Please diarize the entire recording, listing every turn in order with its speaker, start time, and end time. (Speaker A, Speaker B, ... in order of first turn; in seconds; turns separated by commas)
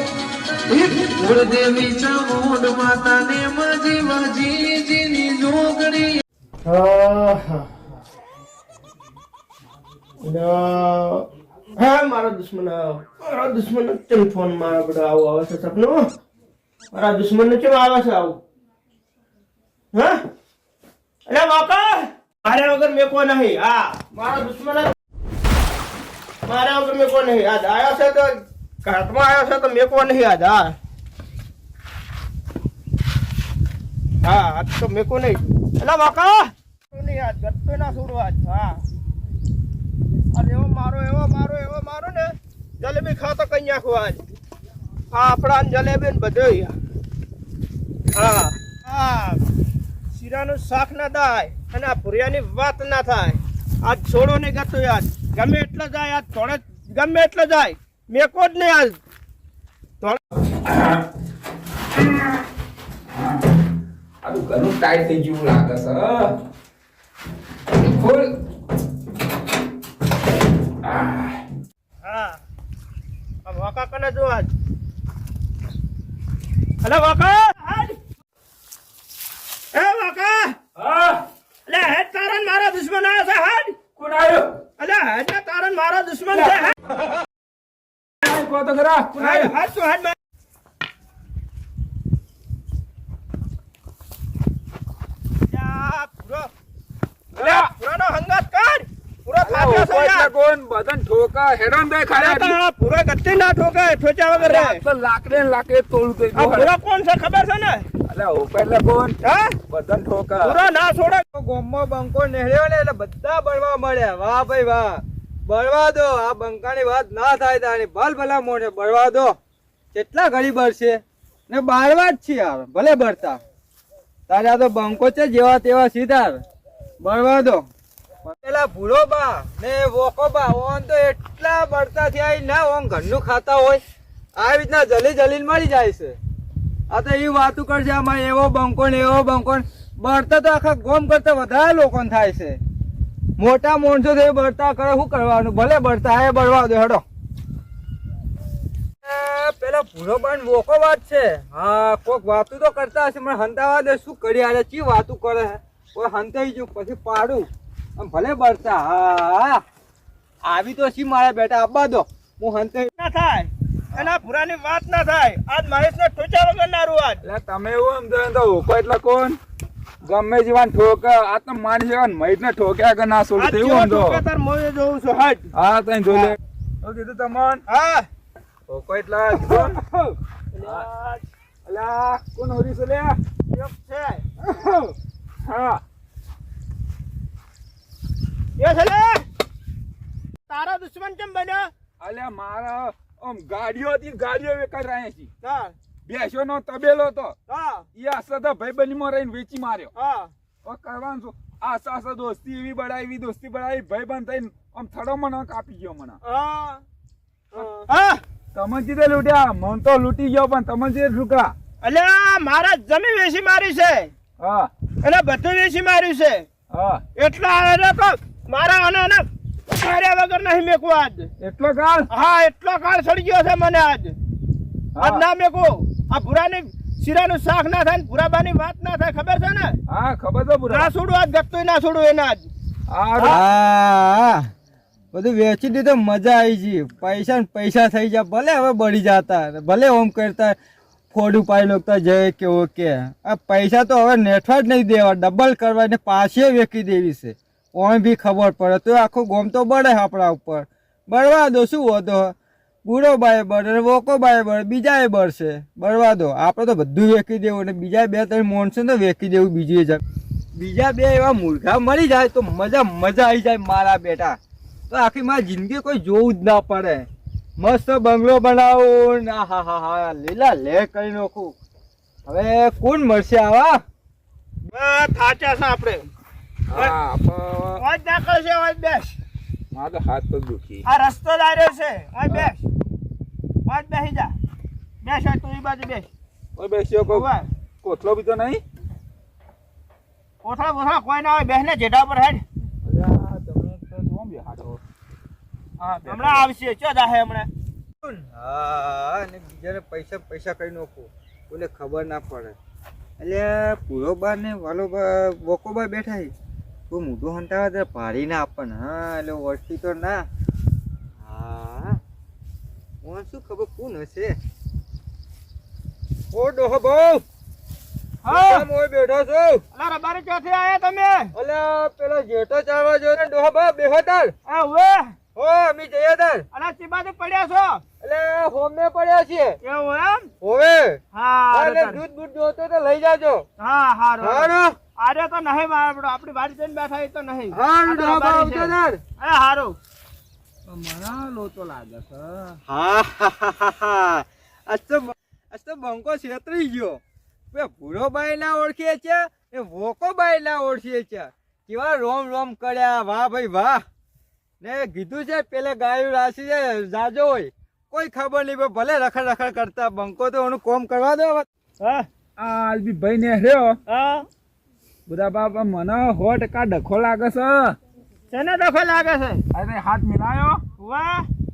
Speaker A: 0.6-6.2, Speaker B: 6.7-7.7, Speaker B: 10.2-16.1, Speaker B: 16.9-18.4, Speaker B: 19.9-20.2, Speaker B: 21.3-24.9, Speaker B: 26.4-30.8, Speaker B: 34.2-38.8, Speaker B: 40.3-44.2, Speaker B: 45.1-46.7, Speaker B: 48.1-49.4, Speaker B: 50.1-59.0, Speaker C: 60.6-61.0, Speaker C: 64.2-66.3, Speaker C: 67.7-68.3, Speaker C: 70.8-71.4, Speaker B: 72.0-72.4, Speaker B: 73.5-74.5, Speaker B: 76.8-78.0, Speaker B: 79.7-80.6, Speaker C: 80.8-81.2, Speaker B: 81.7-83.8, Speaker C: 84.0-84.5, Speaker B: 84.8-86.8, Speaker C: 88.2-89.5, Speaker B: 89.2-90.2, Speaker B: 95.5-96.5, Speaker C: 97.3-97.7, Speaker B: 97.4-100.3, Speaker C: 99.4-102.6, Speaker B: 102.2-104.8, Speaker C: 104.4-106.7, Speaker B: 106.3-107.9, Speaker C: 108.1-109.2, Speaker B: 109.2-109.6, Speaker C: 109.7-110.5, Speaker B: 110.4-111.2, Speaker D: 111.3-119.3, Speaker D: 119.9-123.4, Speaker D: 124.3-126.4, Speaker D: 127.0-127.6, Speaker D: 128.2-133.8, Speaker D: 134.4-136.2, Speaker D: 136.9-142.6, Speaker D: 143.4-147.0, Speaker D: 149.0-159.6, Speaker D: 160.5-162.9, Speaker B: 163.0-167.2, Speaker C: 167.2-169.4, Speaker C: 170.1-174.2, Speaker B: 173.4-175.5, Speaker C: 175.5-177.6, Speaker B: 177.7-178.1, Speaker C: 178.7-179.8, Speaker B: 180.5-181.2, Speaker C: 181.7-183.2, Speaker B: 183.5-184.9, Speaker C: 185.4-185.8, Speaker B: 188.6-189.3, Speaker B: 190.5-191.7, Speaker C: 192.0-195.3, Speaker B: 195.4-195.8, Speaker C: 196.1-197.3, Speaker B: 197.5-197.9, Speaker C: 197.9-199.9, Speaker B: 199.9-200.3, Speaker C: 200.6-206.2, Speaker B: 206.2-206.8, Speaker B: 207.5-208.2, Speaker C: 207.6-207.8, Speaker C: 208.5-211.5, Speaker B: 211.8-214.1, Speaker C: 214.4-214.7, Speaker B: 215.0-216.4, Speaker C: 216.7-217.0, Speaker B: 217.2-221.3, Speaker C: 221.4-222.1, Speaker B: 222.1-224.2, Speaker C: 225.0-225.2, Speaker B: 225.0-229.8, Speaker C: 229.9-230.9, Speaker B: 230.7-232.5, Speaker C: 232.9-233.4, Speaker D: 233.2-234.5, Speaker D: 235.1-240.6, Speaker D: 241.1-252.3, Speaker D: 252.8-260.0, Speaker D: 260.6-264.4, Speaker D: 264.9-267.1, Speaker D: 267.6-271.6, Speaker D: 272.3-273.8, Speaker B: 274.7-276.1, Speaker C: 276.7-277.8, Speaker B: 277.8-279.2, Speaker C: 279.7-280.8, Speaker B: 280.9-282.6, Speaker B: 283.7-284.3, Speaker B: 285.0-286.1, Speaker C: 286.6-287.3, Speaker B: 287.1-287.5, Speaker C: 287.8-288.6, Speaker B: 290.4-292.4, Speaker C: 292.8-294.8, Speaker C: 295.8-296.5, Speaker B: 296.1-297.5, Speaker D: 298.0-302.6, Speaker D: 303.2-306.3, Speaker D: 306.9-310.2, Speaker D: 311.2-312.0, Speaker D: 313.0-314.3, Speaker D: 316.3-317.2, Speaker B: 318.2-318.7, Speaker D: 318.3-319.6, Speaker B: 319.7-321.3, Speaker D: 321.3-324.3, Speaker B: 324.5-325.2, Speaker D: 325.4-326.5, Speaker B: 326.5-327.8, Speaker D: 328.0-329.6, Speaker B: 329.6-330.3, Speaker D: 330.4-331.0, Speaker B: 331.1-332.0, Speaker D: 331.5-333.5, Speaker B: 333.6-339.8, Speaker D: 334.2-334.8, Speaker D: 337.5-339.0, Speaker C: 340.7-342.6, Speaker D: 342.7-347.0, Speaker D: 347.5-353.8, Speaker D: 354.6-361.5, Speaker B: 361.8-362.1, Speaker C: 362.4-363.8, Speaker B: 363.9-364.3, Speaker C: 365.1-367.8, Speaker B: 368.3-369.4, Speaker C: 369.5-370.6, Speaker B: 370.8-371.3